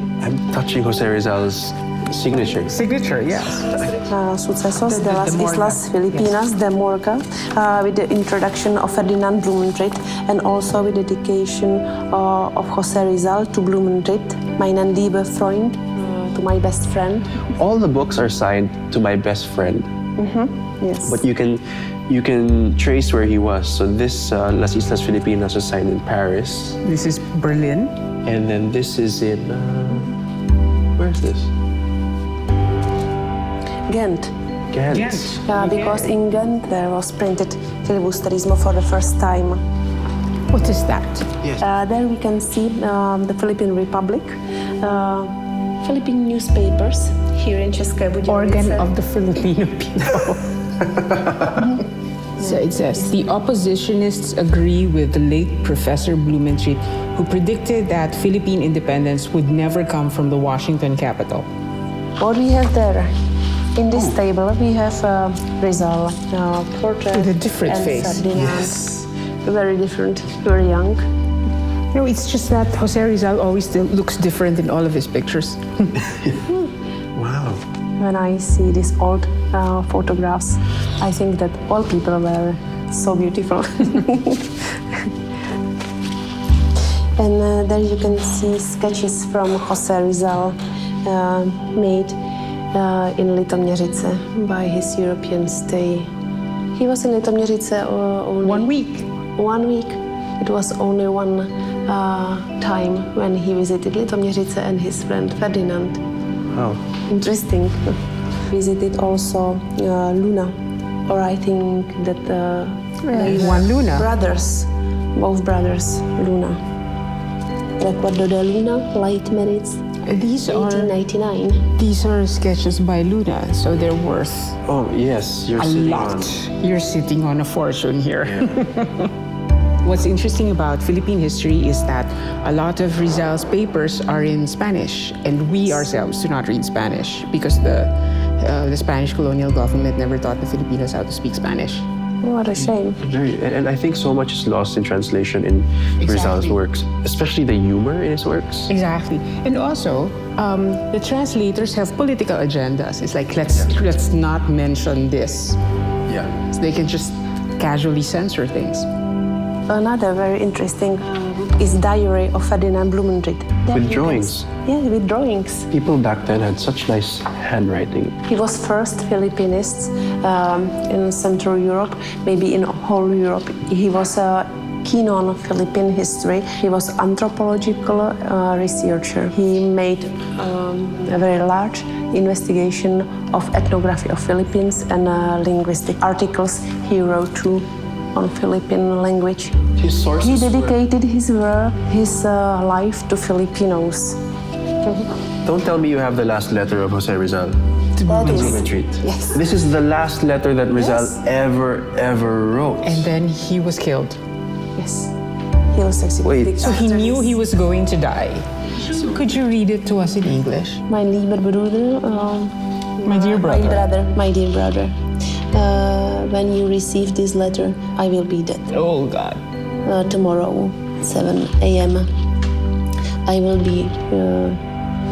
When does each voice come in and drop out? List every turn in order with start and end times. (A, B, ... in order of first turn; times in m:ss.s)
0:00.2-0:02.8 A
0:02.7-0:03.9 B
0:04.1-0:17.4 C
0:04.8-0:06.3 B
0:17.5-0:19.9 A
0:20.2-0:21.2 C
0:21.0-0:26.8 A
0:26.8-0:27.9 B
0:28.2-0:30.1 A
0:31.0-0:31.5 A
0:33.9-0:34.3 C
0:34.7-0:35.6 A
0:34.9-0:36.0 B
0:35.4-0:39.6 C
0:40.5-0:41.3 B
0:41.6-0:48.9 C
0:48.3-0:50.5 B
0:52.4-0:53.2 C
0:52.4-1:01.5 B
1:02.2-1:03.1 C
1:03.8-1:11.0 C
1:07.1-1:08.8 B
1:11.9-1:15.9 B
1:17.2-1:17.6 A
1:18.0-1:24.6 C
1:27.2-1:32.2 C
1:32.7-1:36.1 C
1:36.8-1:46.0 C
1:38.4-1:39.1 B
1:46.5-1:46.8 A
1:47.1-1:47.9 C
1:48.5-1:50.5 C
1:51.1-1:56.6 C
1:53.1-1:54.1 B
1:57.8-1:59.8 C
2:00.0-2:00.9 B
2:00.4-2:01.6 C
2:01.8-2:04.6 B
2:04.6-2:06.4 A
2:05.6-2:09.1 B
2:08.2-2:08.5 A
2:09.8-2:21.8 B
2:22.2-2:23.0 C
2:22.6-2:28.7 A
2:26.0-2:26.6 B
2:28.7-2:35.6 B
2:36.1-2:36.4 A
2:36.5-2:38.9 B
2:39.7-2:45.7 C
2:43.7-2:44.5 A
2:45.7-2:48.2 A
2:48.3-3:09.6 C
3:09.8-3:10.8 A
3:10.2-3:14.2 C
3:15.4-3:17.6 A
3:18.0-3:18.6 B
3:18.0-3:19.5 C
3:18.2-3:23.1 A
3:20.8-3:21.1 C
3:22.8-3:24.2 B
3:24.8-3:25.1 C
3:25.7-3:27.4 C
3:26.2-3:26.7 A
3:26.6-3:30.8 B
3:30.9-3:34.9 C
3:33.1-3:33.8 B
3:35.5-3:38.7 C
3:38.7-3:39.4 B
3:39.8-3:42.1 C
3:43.2-3:44.6 C